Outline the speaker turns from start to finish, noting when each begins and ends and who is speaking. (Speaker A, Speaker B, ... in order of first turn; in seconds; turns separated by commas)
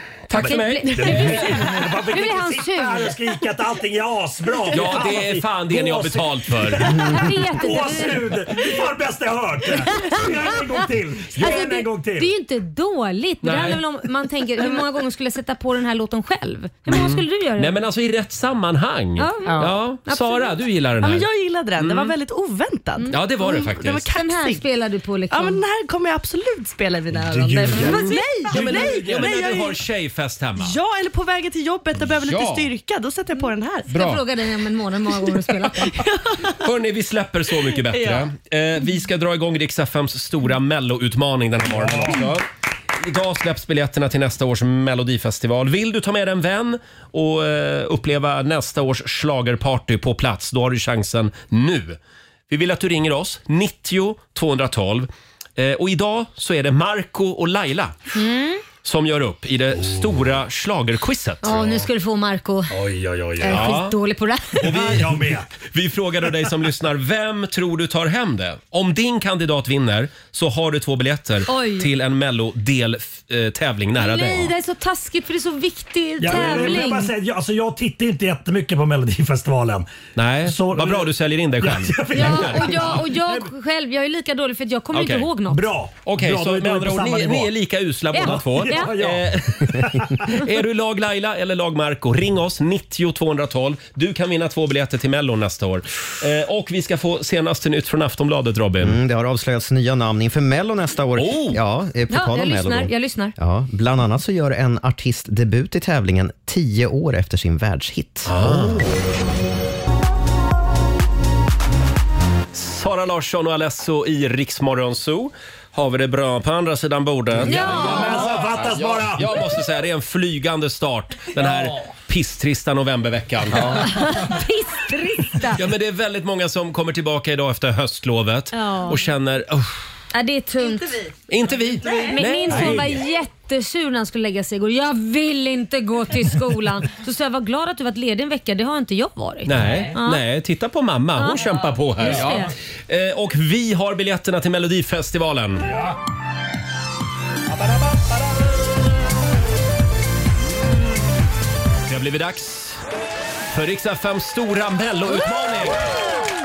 Speaker A: 0.3-1.8, Speaker B: 0.3-12.3, Speaker C: 0.4-3.1, Speaker A: 4.7-7.0, Speaker C: 7.0-8.4, Speaker C: 11.4-17.8, Speaker A: 13.4-13.8, Speaker A: 16.9-22.1, Speaker C: 19.2-20.5, Speaker D: 19.4-19.8, Speaker D: 21.0-24.6, Speaker C: 23.0-25.6, Speaker A: 23.1-24.1, Speaker D: 25.3-29.8, Speaker B: 27.1-29.5, Speaker A: 27.8-30.7, Speaker C: 27.8-28.3, Speaker D: 30.6-33.9, Speaker A: 32.2-32.7, Speaker C: 33.9-36.0, Speaker A: 33.9-34.2, Speaker D: 35.8-36.6, Speaker A: 36.6-42.5, Speaker D: 37.9-38.3, Speaker B: 41.6-42.3, Speaker A: 43.0-52.0, Speaker A: 52.5-58.0, Speaker C: 58.1-58.6, Speaker A: 58.8-61.6, Speaker B: 59.7-60.3, Speaker C: 61.4-62.7, Speaker B: 61.5-61.9, Speaker B: 62.7-63.8, Speaker C: 63.4-64.9, Speaker A: 63.5-64.0, Speaker B: 64.6-65.5, Speaker A: 64.6-74.5, Speaker C: 71.5-71.9, Speaker C: 74.0-77.1, Speaker B: 76.2-79.9, Speaker A: 76.4-76.8, Speaker A: 80.2-82.9, Speaker B: 80.4-83.5, Speaker C: 82.1-85.6, Speaker A: 84.9-85.3, Speaker B: 85.5-87.5, Speaker A: 86.1-99.0, Speaker B: 88.1-90.4, Speaker C: 88.1-88.9, Speaker E: 98.8-108.9, Speaker A: 101.2-101.6, Speaker C: 102.1-103.3, Speaker A: 108.2-108.9, Speaker A: 112.5-123.9, Speaker B: 117.4-119.3, Speaker C: 117.5-118.3, Speaker C: 123.7-125.6, Speaker A: 125.5-129.8, Speaker C: 128.5-129.0, Speaker C: 130.1-131.0, Speaker A: 131.3-133.0, Speaker C: 132.0-140.2, Speaker B: 132.5-133.0, Speaker A: 139.5-145.7, Speaker C: 141.2-142.5, Speaker A: 151.9-152.8, Speaker A: 153.5-156.0